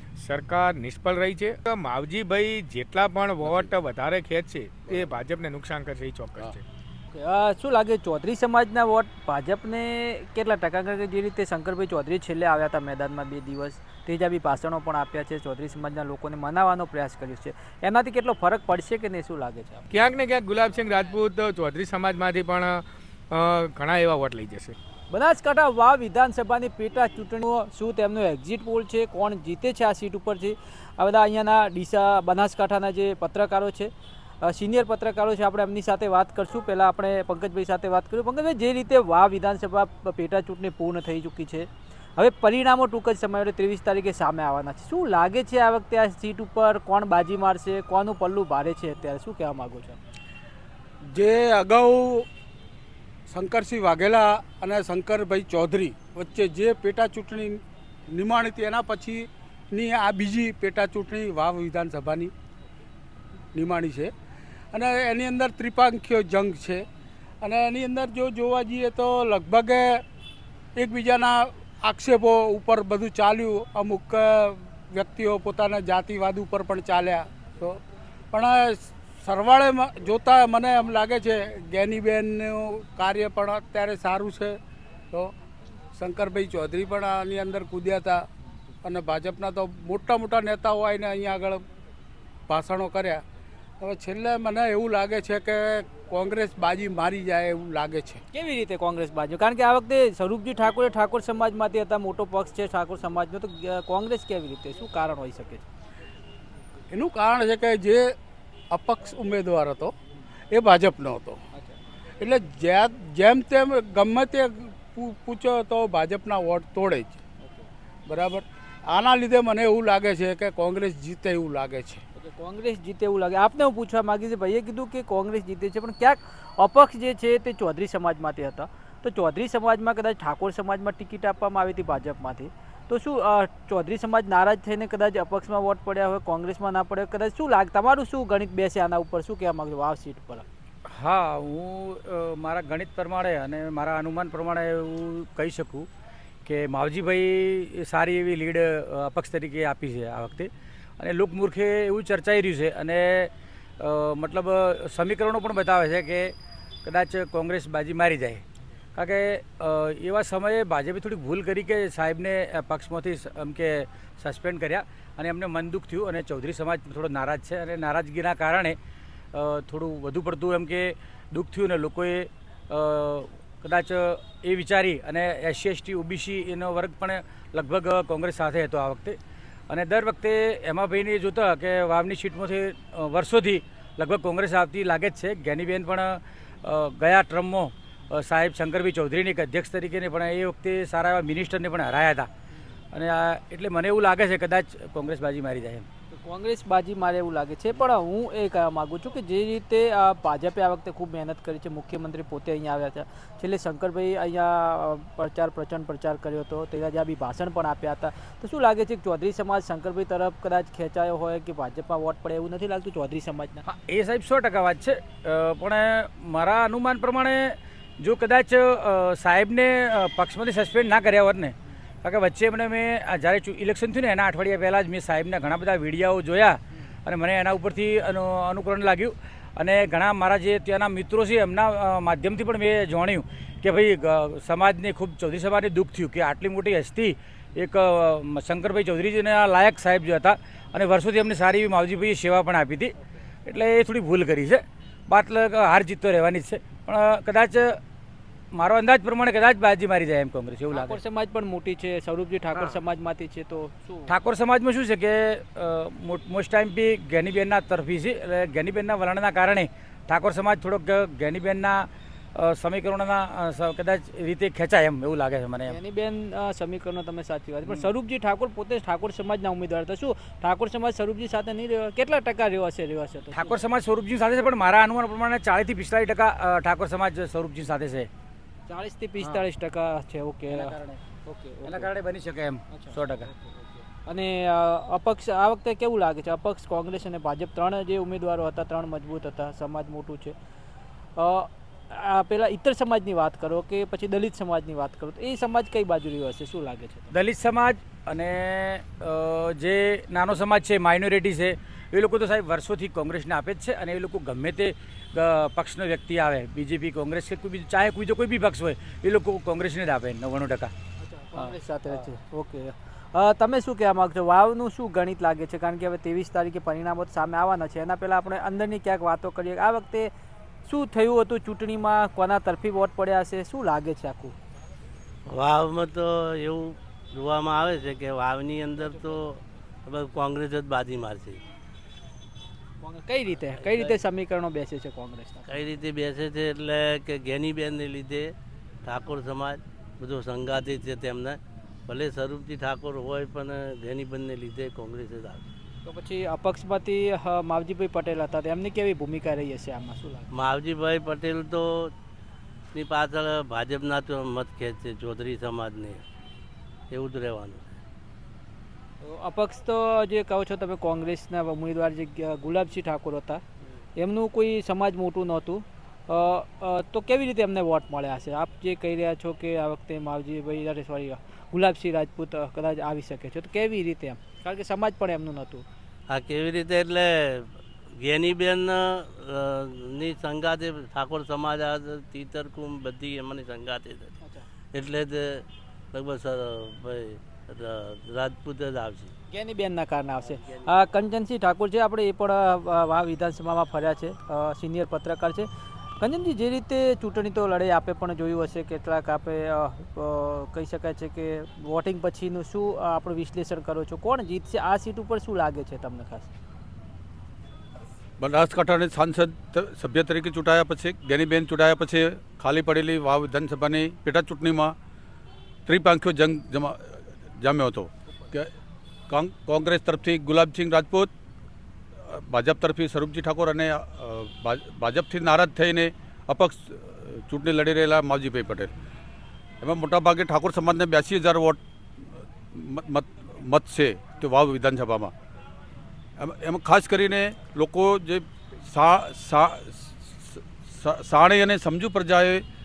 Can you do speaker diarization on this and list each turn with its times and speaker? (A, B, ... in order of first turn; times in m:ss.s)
0:00.2-0:06.6 A
0:07.1-0:19.9 B
0:19.9-0:24.8 A
0:25.1-0:33.9 B
0:34.4-0:50.0 B
0:51.1-0:52.3 C
0:53.3-0:57.6 C
0:58.1-1:02.3 C
1:03.5-1:04.1 C
1:04.7-1:06.8 C
1:07.4-1:10.0 C
1:10.8-1:17.8 C
1:18.3-1:24.6 C
1:25.9-1:28.2 C
1:28.8-1:31.6 C
1:32.5-1:33.2 C
1:33.8-1:38.2 C
1:38.3-1:45.6 B
1:46.9-1:48.1 C
1:48.7-1:49.9 C
1:50.5-1:51.4 C
1:52.2-1:57.2 C
1:58.0-2:02.0 C
2:02.2-2:20.4 B
2:20.9-2:25.9 D
2:26.4-2:36.3 D
2:36.8-2:38.4 D
2:38.9-2:48.8 D
2:49.3-2:59.2 D
2:59.7-3:12.3 D
3:12.9-3:15.8 D
3:16.1-3:33.6 B
3:33.6-4:07.8 D
4:08.5-4:11.0 D
4:10.7-4:14.1 B
4:14.1-4:25.8 D
4:25.7-4:33.6 B
4:33.3-4:38.1 D
4:38.7-4:40.7 B
4:40.5-4:41.0 D
4:41.2-4:41.9 B
4:41.6-4:43.3 D
4:42.7-4:43.0 B
4:44.0-4:50.4 B
4:51.2-4:57.1 B
4:57.1-5:10.7 D
5:11.0-5:20.1 B
5:20.6-5:24.3 B
5:25.3-5:31.4 E
5:32.8-5:35.5 B
5:33.6-5:34.0 E
5:35.5-5:38.3 E
5:38.8-5:45.4 E
5:45.8-5:50.3 B
5:50.4-5:51.9 E
5:52.7-5:56.0 E
5:56.9-5:57.6 E
5:59.0-6:03.4 B
6:04.0-6:15.6 B
6:16.1-6:24.1 E
6:24.7-6:29.1 E
6:29.3-6:35.5 B
6:30.3-6:30.8 E
6:36.0-6:46.3 B
6:48.2-6:54.7 F
6:55.6-6:58.5 F
6:59.1-7:01.1 F
7:02.0-7:08.7 F
7:09.6-7:11.6 F
7:12.5-7:15.1 F
7:16.2-7:22.4 F